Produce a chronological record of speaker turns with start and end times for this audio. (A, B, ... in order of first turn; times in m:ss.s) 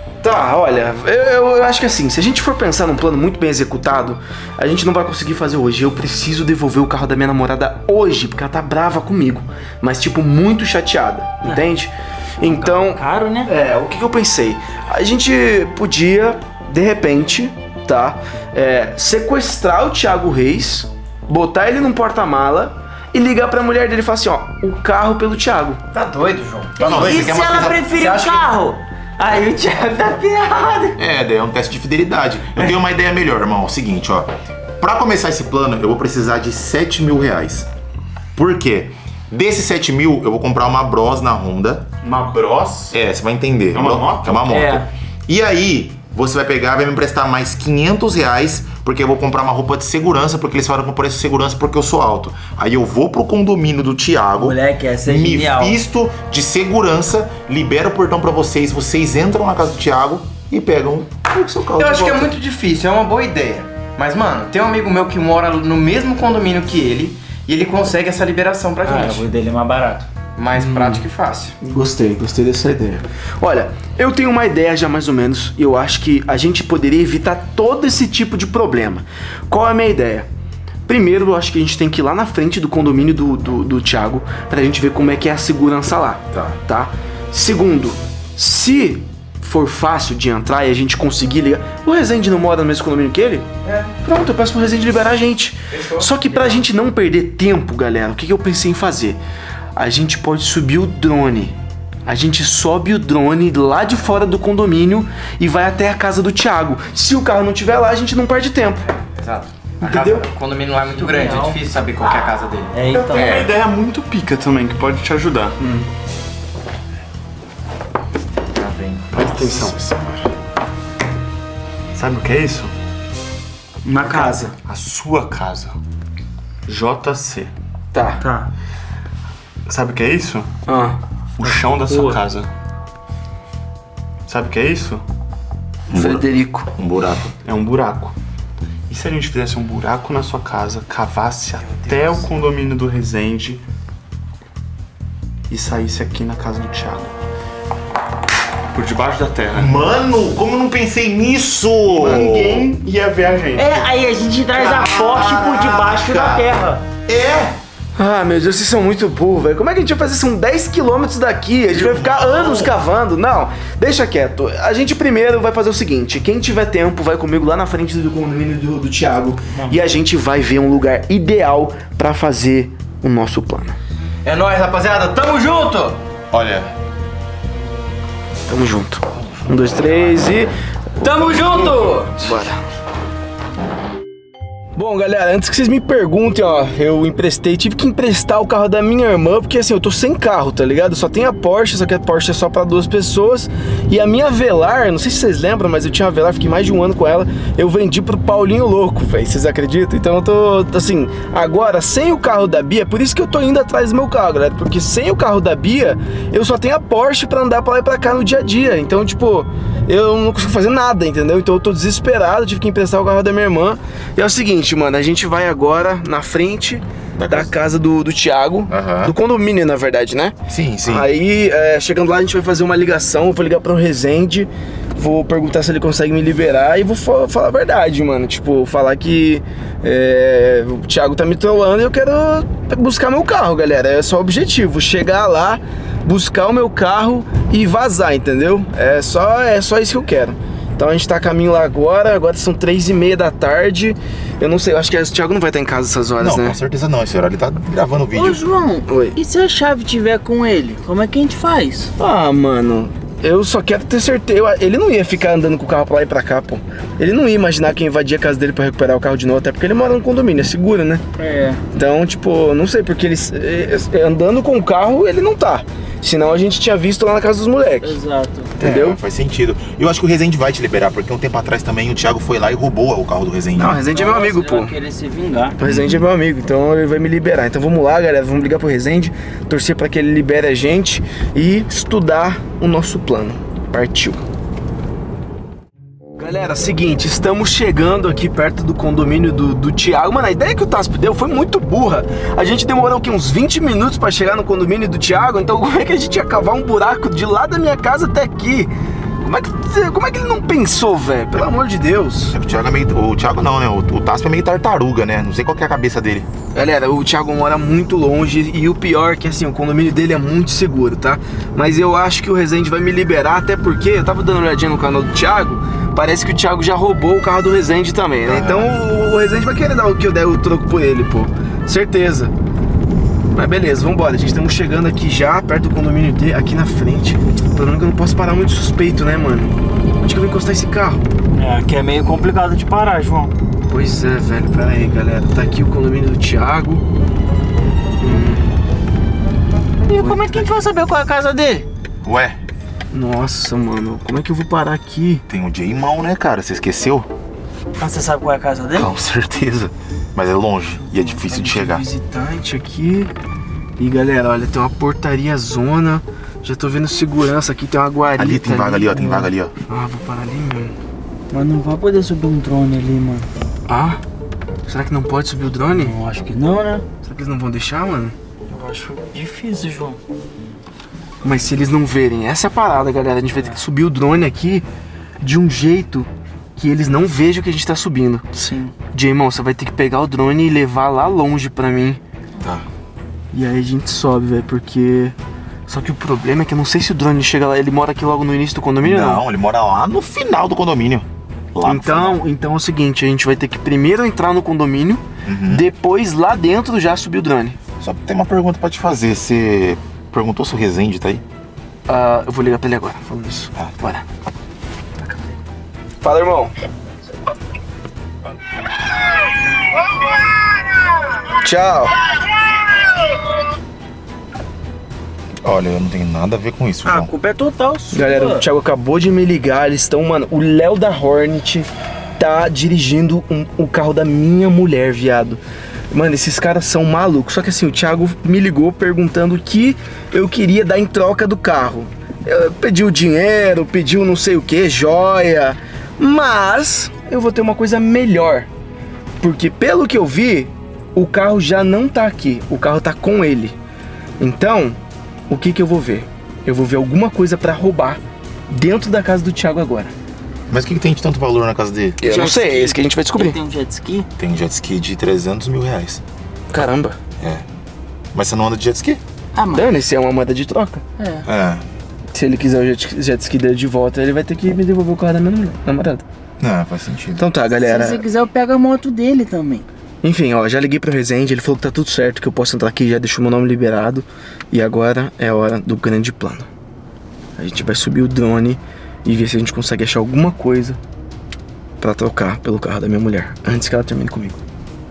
0:00.2-0:25.8 A
0:12.4-0:13.5 B
0:25.9-0:28.5 C
0:26.8-0:31.0 B
0:26.8-0:27.8 D
0:31.0-0:37.7 D
0:38.3-0:41.8 D
0:42.0-0:42.9 E
0:42.9-1:02.3 D
0:43.7-0:44.4 E
0:44.5-0:44.9 B
0:54.4-0:55.8 B
1:01.8-1:09.3 C
1:08.8-1:10.1 B
1:10.4-1:11.5 C
1:10.5-1:11.0 A
1:11.6-1:20.3 A
1:20.9-1:33.5 A
1:34.0-1:39.2 A
1:39.8-1:48.8 A
1:49.2-1:52.7 C
1:49.8-1:50.3 A
1:50.8-1:51.6 B
1:52.7-1:53.4 B
1:52.9-1:53.5 D
1:53.0-1:55.5 E
1:55.6-1:55.9 A
1:58.5-2:00.2 D
1:59.1-1:59.8 E
2:01.9-2:02.7 E
2:03.8-2:04.4 B
2:04.0-2:04.5 A
2:04.6-2:05.8 E
2:06.7-2:07.5 E
2:07.9-2:08.2 A
2:08.2-2:08.5 B
2:09.7-2:10.5 E
2:10.6-2:11.0 A
2:11.4-2:12.5 E
2:11.5-2:12.2 B
2:14.3-2:15.0 E
2:15.9-2:16.7 A
2:15.9-2:17.3 D
2:17.4-2:18.1 E
2:18.9-2:23.6 E
2:25.5-2:27.2 E
2:28.7-2:29.7 E
2:29.5-2:32.7 D
2:31.9-2:33.9 E
2:33.5-2:36.8 B
2:34.5-2:37.6 D
2:38.0-2:53.8 A
2:41.7-2:42.8 D
2:54.2-2:56.0 C
2:56.3-2:56.7 D
2:58.5-3:00.5 A
2:59.2-3:00.4 D
3:01.0-3:02.1 B
3:01.5-3:02.6 A
3:04.7-4:06.6 A
3:37.2-3:37.5 D
3:38.7-3:39.1 D
3:40.5-3:41.1 D
4:06.2-4:08.4 D
4:08.1-4:11.9 B
4:08.9-4:09.2 A
4:12.0-4:21.0 A
4:21.2-4:21.6 B
4:21.7-4:28.0 A
4:27.8-4:28.5 B
4:28.6-4:33.8 D
4:28.6-4:29.0 A
4:33.5-4:34.8 A
4:33.9-4:35.6 B
4:35.6-4:44.2 A
4:35.6-4:36.0 D
4:46.2-4:58.7 A
4:59.2-5:02.4 A
5:02.3-5:06.3 D
5:06.5-5:22.3 A
5:18.2-5:18.8 D
5:23.3-5:31.0 A
5:31.3-5:33.3 B
5:33.7-5:36.8 A
5:38.0-5:38.5 A
5:39.9-5:41.7 B
5:39.9-5:40.6 A
5:42.0-5:42.4 D
5:42.9-5:45.2 A
5:45.3-5:47.1 D
5:47.8-5:48.9 B
5:48.7-5:51.8 D
5:51.0-5:53.1 A
5:53.8-6:00.8 A
5:58.2-5:59.5 D
6:01.3-6:03.3 B
6:03.7-6:04.0 A
6:04.7-6:06.0 A
6:05.7-6:06.8 B
6:07.0-6:08.2 A
6:08.5-6:10.0 B
6:11.2-6:14.6 A
6:15.2-6:18.2 A
6:18.3-6:18.7 B
6:18.9-6:22.0 A
6:22.4-6:22.6 D
6:23.3-6:25.2 A
6:25.7-6:29.2 A
6:28.8-6:32.2 D
6:31.6-6:37.6 A
6:35.2-6:35.6 D
6:37.8-6:41.2 D
6:41.9-6:44.0 A
6:46.0-6:46.5 A
6:51.3-6:51.9 A
6:55.4-6:57.1 D
6:56.8-6:58.4 B
6:57.9-7:05.4 A
7:05.9-7:18.5 A
7:19.2-7:23.6 A
7:24.2-7:29.9 A
7:30.5-7:32.0 D
7:32.0-7:33.4 A
7:32.0-7:34.1 B
7:34.2-7:36.0 D
7:36.5-7:37.0 A
7:38.1-7:39.0 D
7:39.3-7:39.6 B
7:39.5-7:40.8 A
7:41.0-7:41.2 B
7:41.2-7:41.6 D
7:42.1-7:46.0 A
7:46.4-7:47.2 D
7:47.2-7:48.0 A
7:47.6-7:49.6 B
7:50.0-7:56.5 A
7:57.4-8:00.8 A
8:01.8-8:04.4 A